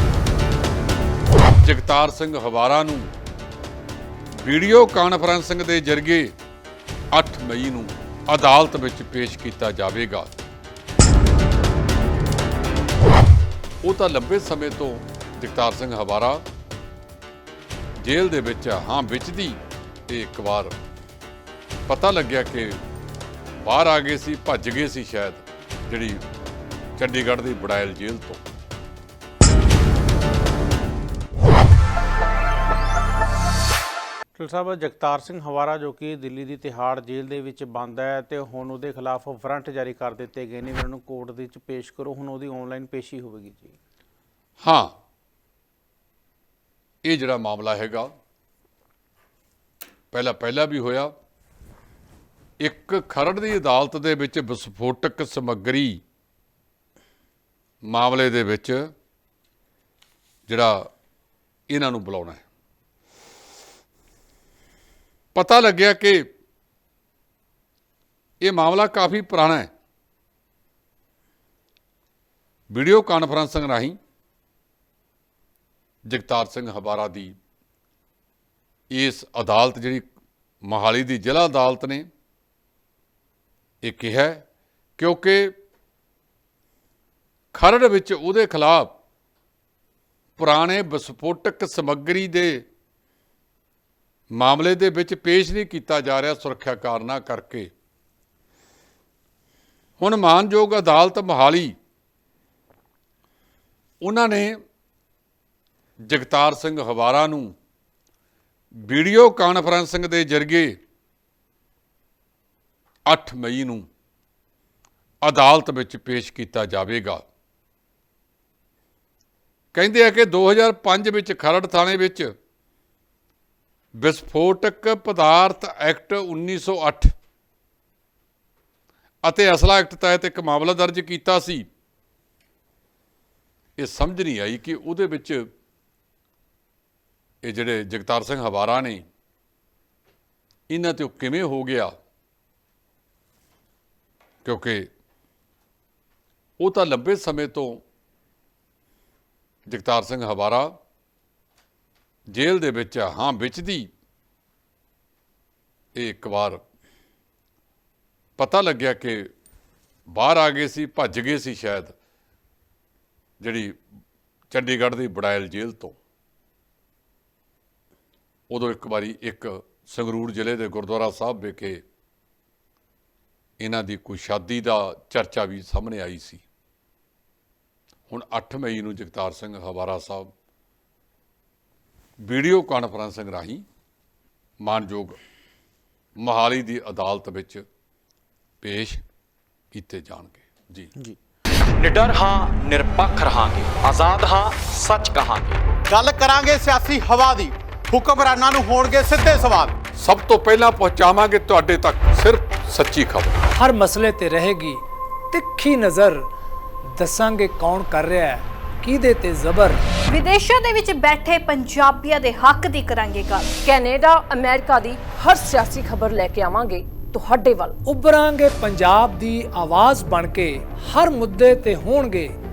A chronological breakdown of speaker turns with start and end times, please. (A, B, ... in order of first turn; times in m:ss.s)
0:01.6-0:03.1 A
0:04.4-0:06.3 A
0:07.1-0:10.3 A
0:13.8-0:16.4 A
0:18.0-0:20.8 A
0:21.9-0:22.8 A
0:23.6-0:26.2 A
0:27.0-0:28.4 A
0:34.4-0:43.8 B
0:44.6-0:44.9 A
0:47.0-0:48.1 A
0:50.1-0:51.1 A
0:52.6-0:56.0 A
0:57.9-0:58.9 A
1:00.5-1:00.9 A
1:01.7-1:02.4 A
1:05.4-1:06.3 A
1:08.4-1:09.7 A
1:12.7-1:14.0 A
1:16.1-1:17.4 A
1:18.9-1:20.1 A
1:20.7-1:22.1 A
1:23.8-1:24.4 A
1:25.0-1:25.6 A
1:27.5-1:29.0 A
1:30.4-1:32.6 A
1:34.3-1:37.7 A
1:40.0-1:41.8 A
1:44.0-1:44.6 A
1:46.1-1:47.5 A
1:48.9-1:50.8 A
1:53.1-1:53.9 A
1:55.2-1:57.2 A
1:59.7-2:02.3 A
2:04.0-2:07.1 A
2:09.2-2:11.7 A
2:13.8-2:15.5 A
2:17.4-2:19.0 A
2:20.7-2:22.0 A
2:24.4-2:24.9 A
2:26.6-2:27.8 A
2:29.7-2:30.8 A
2:32.3-2:33.9 A
2:36.0-2:36.6 A
2:38.4-2:39.3 A
2:40.1-2:42.0 A
2:43.4-2:43.8 A
2:44.5-2:46.0 A
2:48.5-2:51.8 A
2:53.6-2:56.4 A
2:58.1-3:00.3 A
3:02.2-3:03.6 A
3:04.6-3:05.2 A
3:06.2-3:07.6 A
3:08.6-3:09.0 A
3:09.7-3:10.9 A
3:11.8-3:15.6 C
3:15.9-3:19.8 D
3:20.0-3:23.4 A
3:23.6-3:26.3 E
3:27.0-3:29.8 E
3:30.1-3:33.5 F
3:33.6-3:37.8 G
3:37.8-3:42.3 E